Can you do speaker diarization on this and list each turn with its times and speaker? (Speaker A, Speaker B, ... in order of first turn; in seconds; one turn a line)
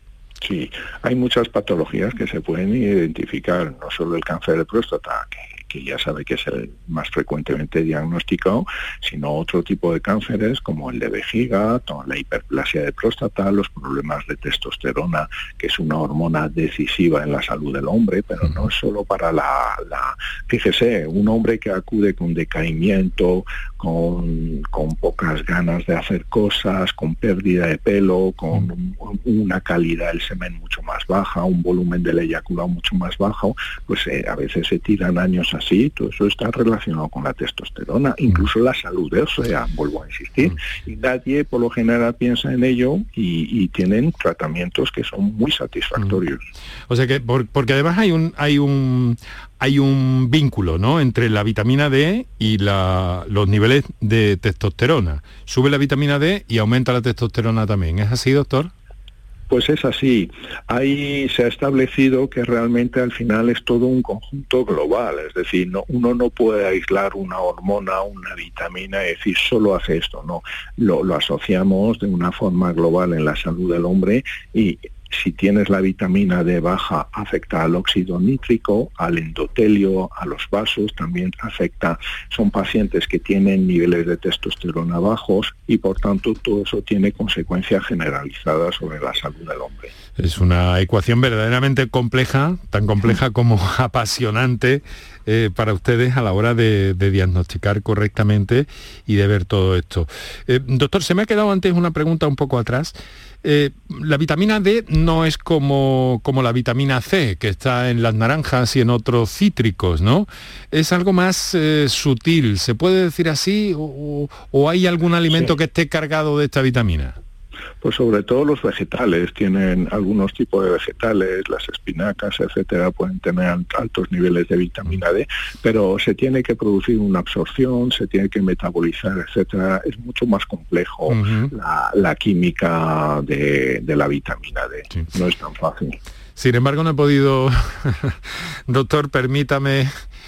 Speaker A: 0.4-46.4
Speaker B: 46.9-58.7
Speaker A: 59.5-89.9
Speaker B: 90.2-117.2
Speaker A: 117.8-136.0
Speaker B: 131.1-131.5
Speaker B: 136.4-139.9